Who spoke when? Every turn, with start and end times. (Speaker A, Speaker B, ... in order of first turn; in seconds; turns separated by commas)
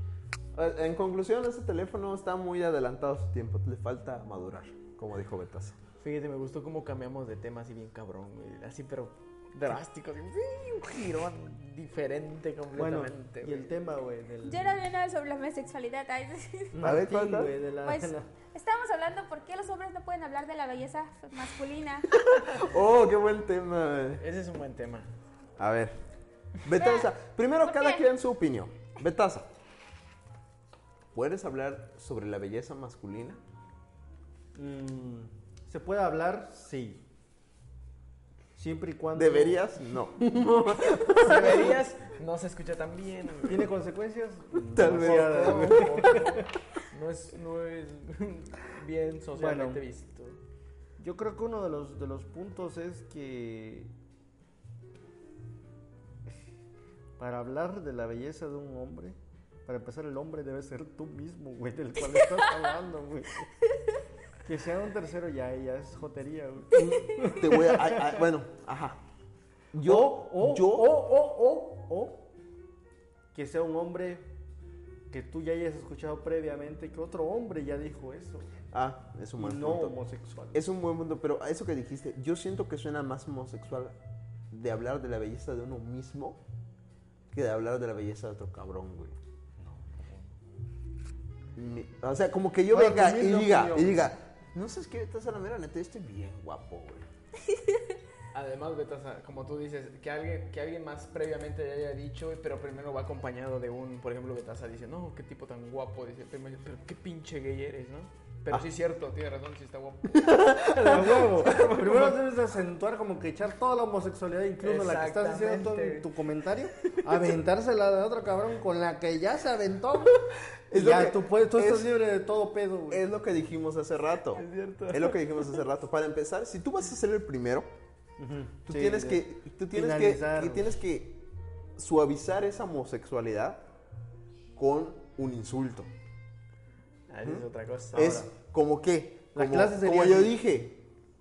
Speaker A: 0.5-5.8, Speaker B: 6.0-13.7, Speaker C: 12.7-14.8, Speaker D: 14.4-16.8, Speaker C: 16.7-18.3, Speaker A: 16.8-17.6, Speaker D: 17.8-22.1, Speaker A: 22.1-24.2, Speaker B: 24.2-25.1, Speaker A: 25.6-26.0, Speaker A: 26.6-29.5, Speaker D: 26.7-27.1, Speaker D: 27.6-28.0, Speaker A: 31.1-33.4, Speaker C: 34.5-37.0, Speaker C: 38.6-39.8, Speaker A: 39.1-41.8, Speaker B: 41.1-43.6, Speaker C: 43.4-46.5, Speaker A: 44.7-46.4, Speaker B: 44.8-50.4, Speaker C: 49.4-49.8, Speaker C: 51.0-53.9, Speaker C: 57.2-63.5, Speaker C: 64.4-68.2, Speaker A: 66.7-69.0, Speaker A: 69.7-71.0, Speaker C: 69.8-72.3, Speaker C: 73.3-74.3, Speaker C: 75.1-78.6, Speaker A: 78.7-80.0, Speaker C: 79.4-80.7, Speaker A: 80.5-84.0, Speaker A: 84.5-86.4, Speaker A: 87.3-89.2, Speaker C: 89.6-90.3, Speaker A: 91.6-97.1, Speaker C: 92.7-94.1, Speaker B: 98.3-112.2, Speaker A: 110.2-111.0, Speaker C: 110.8-123.1, Speaker B: 114.6-116.1, Speaker A: 120.7-121.9, Speaker A: 122.9-127.7, Speaker B: 124.3-125.6, Speaker C: 128.2-130.8, Speaker A: 128.7-131.2, Speaker A: 131.8-133.6, Speaker A: 134.6-135.9, Speaker B: 137.1-138.2, Speaker A: 137.2-140.8, Speaker C: 138.0-138.3, Speaker C: 139.3-140.4